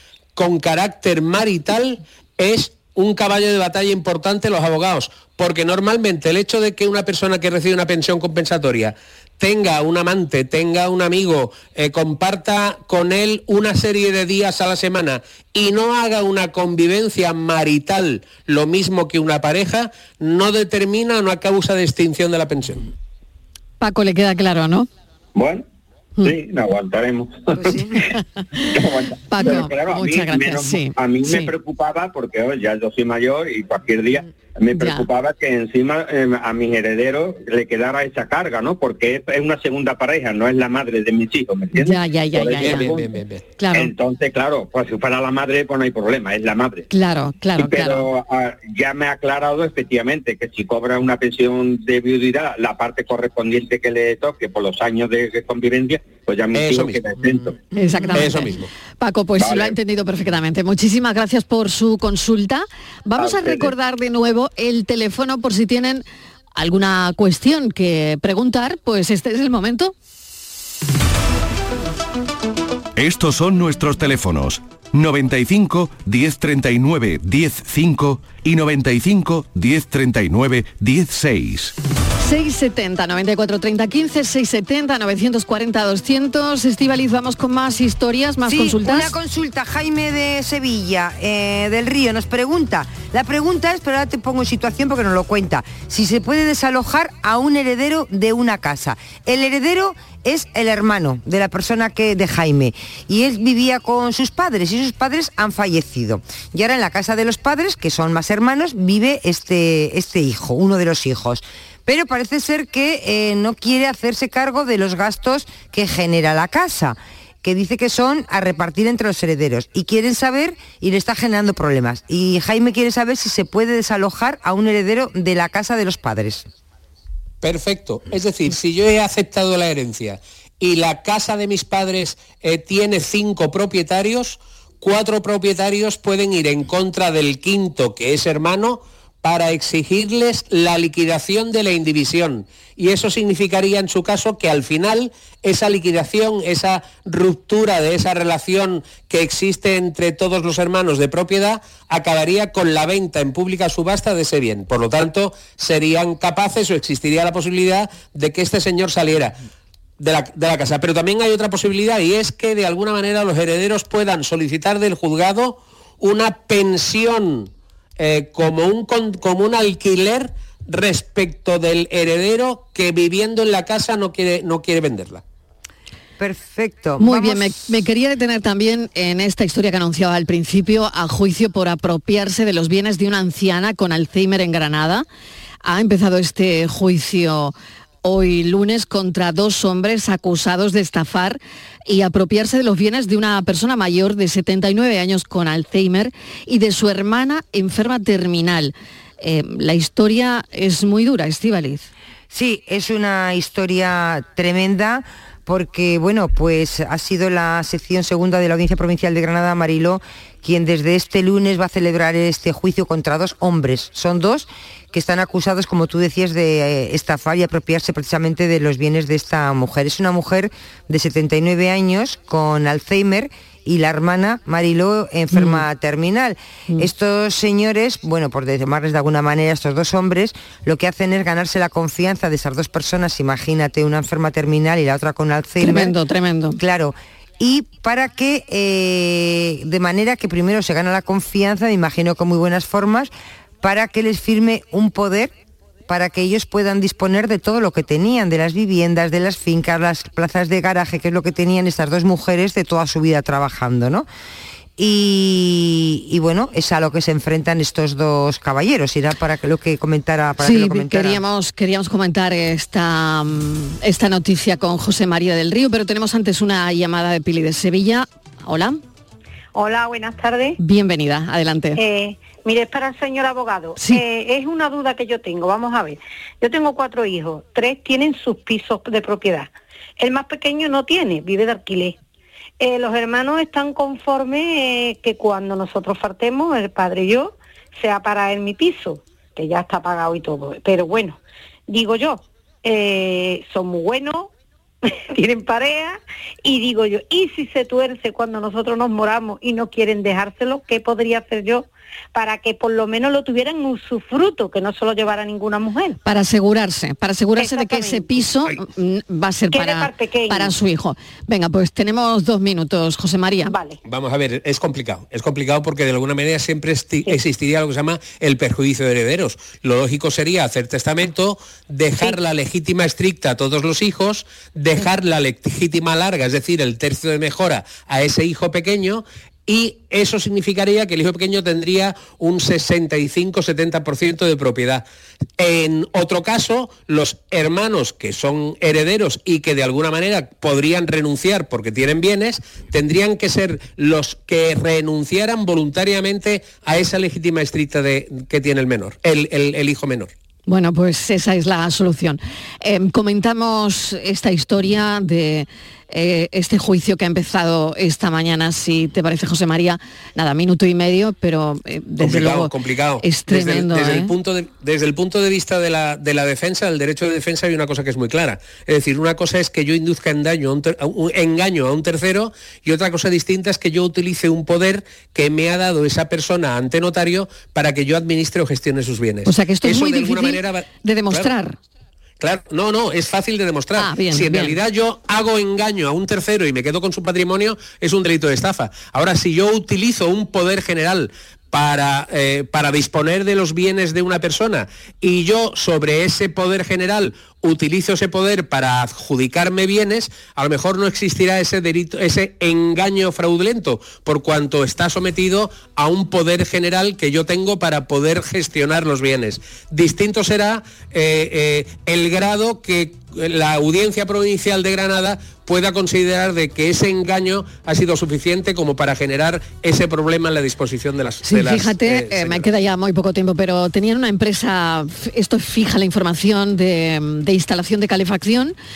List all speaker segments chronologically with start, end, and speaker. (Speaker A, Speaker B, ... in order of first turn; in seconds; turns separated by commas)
Speaker A: 0.3-22.9, Speaker B: 23.8-24.9, Speaker C: 25.3-25.6, Speaker C: 26.2-28.1, Speaker B: 27.8-31.5, Speaker C: 28.7-43.1, Speaker B: 34.7-35.1, Speaker B: 41.8-43.0, Speaker A: 42.6-43.4, Speaker B: 43.6-43.9, Speaker C: 43.7-46.9, Speaker B: 46.9-48.1, Speaker C: 47.6-57.6, Speaker A: 56.5-57.0, Speaker B: 57.7-66.0, Speaker A: 58.1-58.7, Speaker C: 59.4-59.7, Speaker C: 63.2-63.7, Speaker B: 66.5-69.9, Speaker D: 73.0-81.7, Speaker B: 82.2-89.1, Speaker E: 88.5-126.4, Speaker A: 127.4-159.4, Speaker A: 160.0-175.2, Speaker E: 176.2-177.7, Speaker B: 177.0-185.0, Speaker B: 185.6-201.9, Speaker E: 202.3-235.9, Speaker B: 225.3-225.6, Speaker B: 235.6-236.6, Speaker E: 236.6-245.3, Speaker E: 245.8-254.1, Speaker E: 254.8-261.2, Speaker B: 260.4-268.8, Speaker F: 269.5-270.6, Speaker B: 270.6-271.8, Speaker F: 271.8-282.0, Speaker B: 273.8-274.0, Speaker F: 282.6-294.3, Speaker F: 295.1-306.0, Speaker B: 306.0-313.5, Speaker F: 307.4-308.3, Speaker F: 309.5-310.5, Speaker F: 313.4-313.8, Speaker A: 313.9-334.8, Speaker A: 335.4-350.1, Speaker B: 350.5-364.1, Speaker A: 362.0-381.3, Speaker B: 379.2-381.6, Speaker A: 382.2-422.6, Speaker B: 383.8-384.6, Speaker B: 421.2-428.5